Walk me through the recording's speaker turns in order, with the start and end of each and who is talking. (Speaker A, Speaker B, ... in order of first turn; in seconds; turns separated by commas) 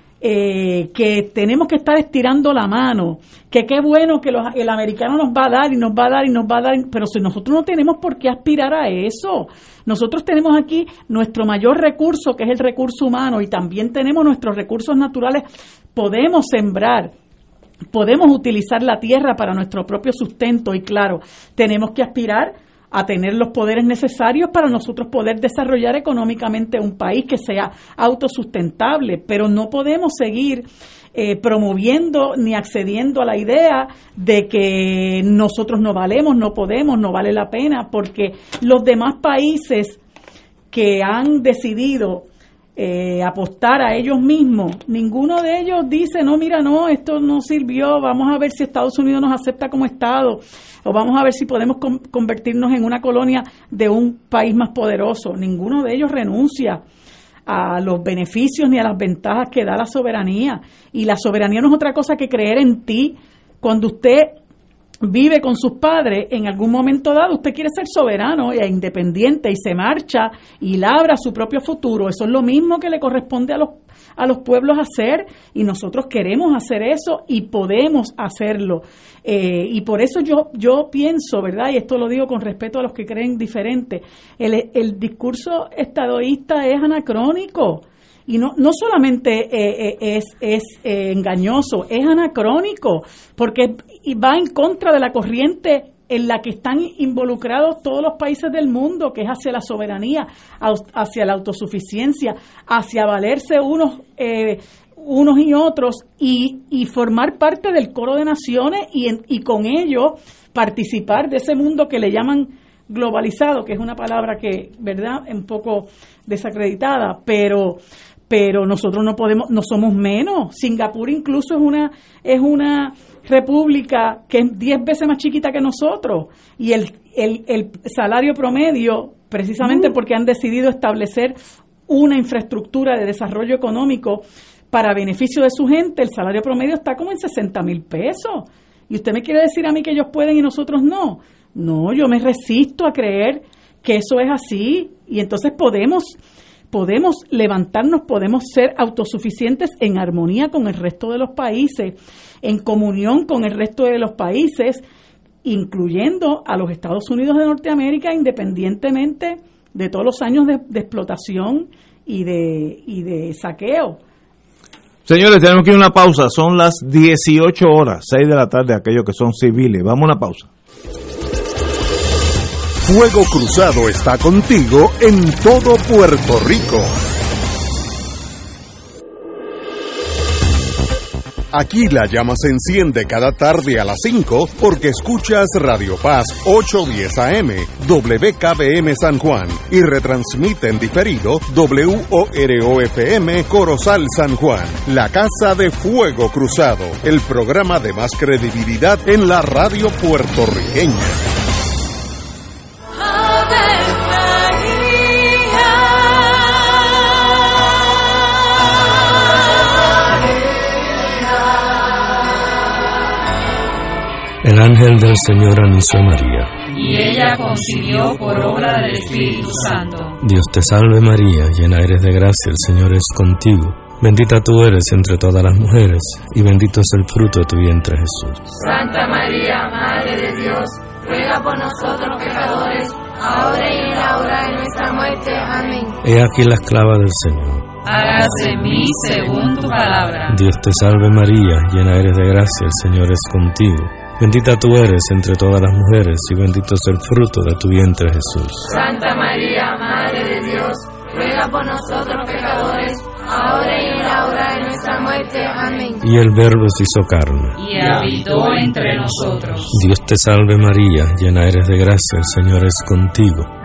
Speaker A: 0.2-17.1, Speaker A: 17.9-40.0, Speaker A: 40.7-56.8, Speaker A: 57.5-64.4, Speaker A: 65.0-131.4, Speaker A: 131.9-146.2, Speaker A: 146.7-154.8, Speaker A: 155.4-164.0, Speaker B: 165.1-170.5, Speaker C: 172.8-177.0, Speaker C: 181.5-201.2, Speaker D: 214.4-216.6, Speaker E: 216.7-220.2, Speaker D: 220.2-228.5, Speaker E: 228.6-236.0, Speaker D: 236.0-237.7, Speaker E: 237.8-240.4, Speaker D: 240.3-248.8, Speaker E: 248.7-256.0, Speaker D: 256.0-257.6, Speaker E: 257.6-259.7, Speaker D: 259.7-263.5